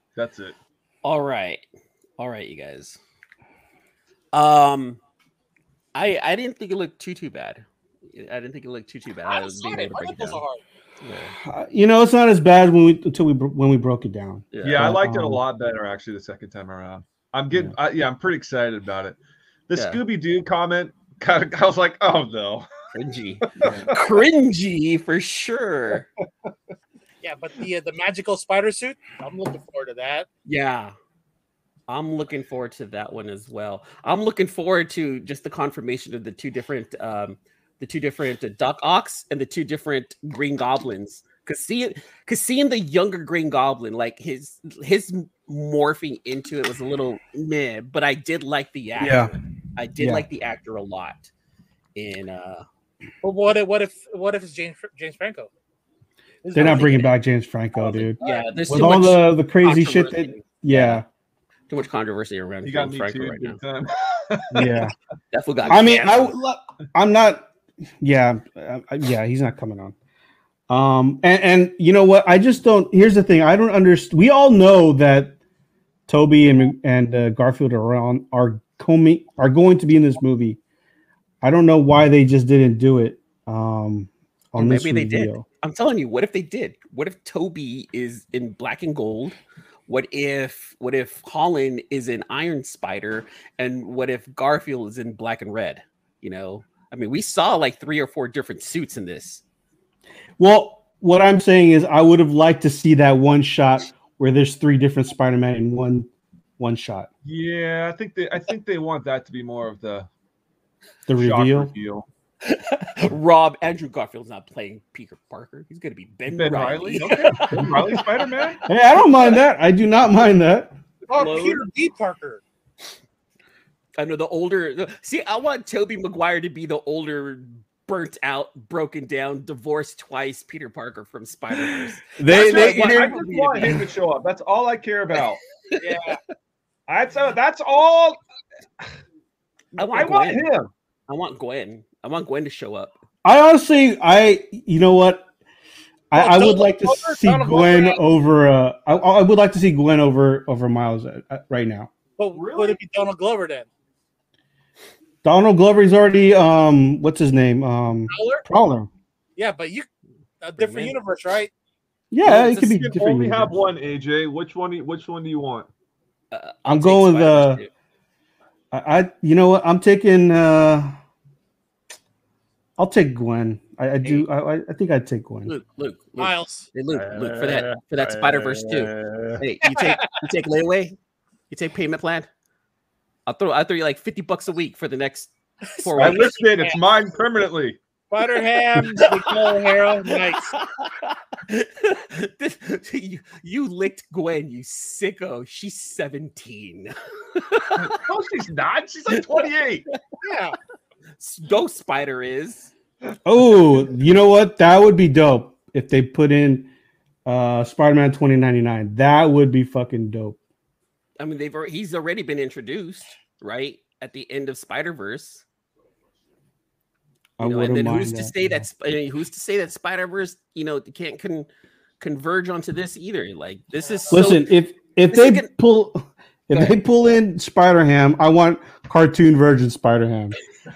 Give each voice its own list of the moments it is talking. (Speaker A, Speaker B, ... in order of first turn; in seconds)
Speaker A: 0.2-0.6, 14.6-19.2, 19.7-22.7, 23.6-24.0, 62.6-64.8, 107.2-110.1, 111.2-112.1, 116.3-118.6, 132.3-135.4, 136.9-138.2, 139.8-140.7, 152.3-152.8, 162.2-165.7, 176.9-179.4, 186.0-187.8, 197.8-199.9
Speaker B: 1.0-1.6, 2.2-3.0, 4.3-5.0, 6.0-10.4, 11.0-11.3, 14.5-14.9, 19.7-20.0, 22.9-26.1, 30.5-30.9, 31.9-51.3, 52.0-52.7, 56.5-57.1, 58.2-61.0, 61.7-63.6, 65.3-66.3, 84.6-89.4, 89.9-99.4, 112.4-117.9, 121.1-121.6, 124.0-133.8, 139.8-140.5, 141.1-143.0, 160.6-161.0, 166.3-167.7, 175.5-181.0, 181.5-182.3, 183.3-186.4, 188.8-197.8, 201.2-202.7, 211.2-215.4, 217.4-221.5, 222.0-224.5, 225.1-225.5
Speaker C: 9.3-10.6, 27.2-30.3, 53.2-55.5, 56.4-57.1, 58.0-58.4, 121.1-122.4, 135.8-136.2, 146.1-148.0, 152.2-153.7, 158.1-158.4, 159.4-159.9, 160.4-161.5, 176.2-176.7, 179.7-180.1, 185.8-186.8, 188.1-190.5, 200.2-200.6
Speaker D: 11.4-15.4, 49.0-49.3, 50.0-50.3, 56.5-58.2, 58.7-61.0, 64.5-64.9, 65.7-67.5, 68.0-70.0, 70.7-75.4, 76.1-80.6, 81.4-85.5, 100.4-106.1, 106.6-107.1, 111.1-111.7, 118.7-120.7, 132.2-133.8, 143.2-145.3, 146.1-151.9, 155.2-158.9, 162.1-163.6, 166.7-167.6, 168.7-171.0, 172.8-175.5, 203.3-206.7, 207.3-210.4, 217.4-218.7, 224.1-230.4